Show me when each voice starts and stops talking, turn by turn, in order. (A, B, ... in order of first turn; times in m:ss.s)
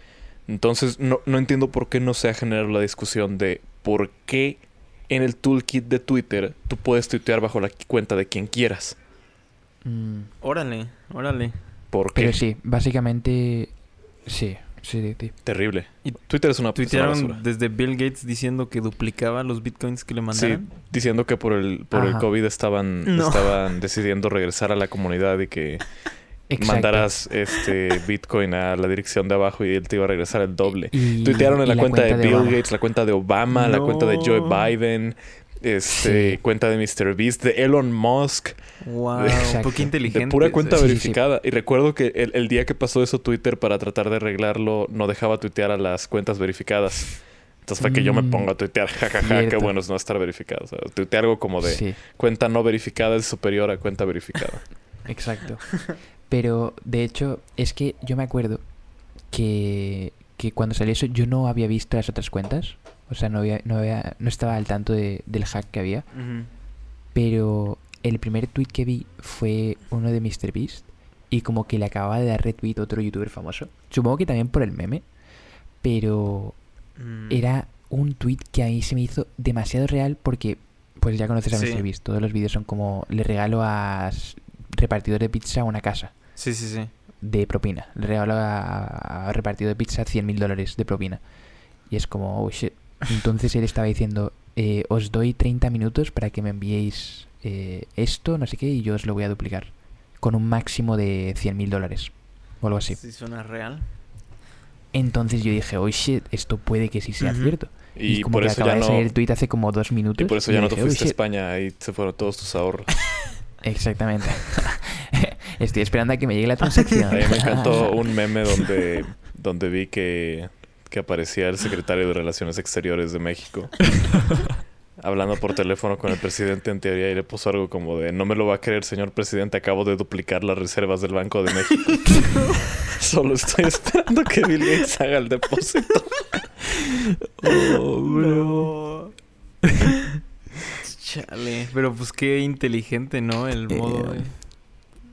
0:00.5-0:09.0 A
0:09.8-0:10.3 B
0:10.4-0:11.6 C
0:11.9-0:12.4 A
0:12.1-0:15.4 B
0:15.4-0:17.4 A
0:16.7-0:20.6 C
0:20.3-0:25.8 A
0:21.9-0:22.3 B
0:23.0-0:23.6 C
0:26.5-0:27.2 B
0:26.6-0:38.6 A
0:30.9-0:32.6 B
0:33.5-0:34.7 C
0:35.9-0:36.4 B
0:38.8-0:40.9 C
0:39.2-0:54.8 A
0:39.3-0:39.9 B
0:40.7-0:41.2 B
0:47.8-0:48.5 B
0:49.2-0:49.7 B
0:51.6-0:52.0 B
0:55.1-0:58.7 B
0:59.2-1:06.1 B
1:06.1-1:06.5 C
1:07.1-1:15.0 B
1:15.8-1:16.6 B
1:17.0-1:17.4 C
1:17.3-1:26.2 B
1:21.5-1:21.8 C
1:26.4-1:26.9 C
1:27.2-1:31.2 B
1:31.9-1:43.0 B
1:42.9-1:43.9 C
1:44.9-1:51.2 B
1:47.2-1:47.6 C
1:48.0-1:49.1 A
1:50.2-1:53.0 A
1:53.6-1:58.0 B
1:57.1-2:04.1 A
2:05.0-2:16.5 A
2:12.2-2:12.6 C
2:16.8-2:18.7 B
2:18.0-2:19.2 C
2:20.8-2:24.4 C
2:23.7-2:24.4 B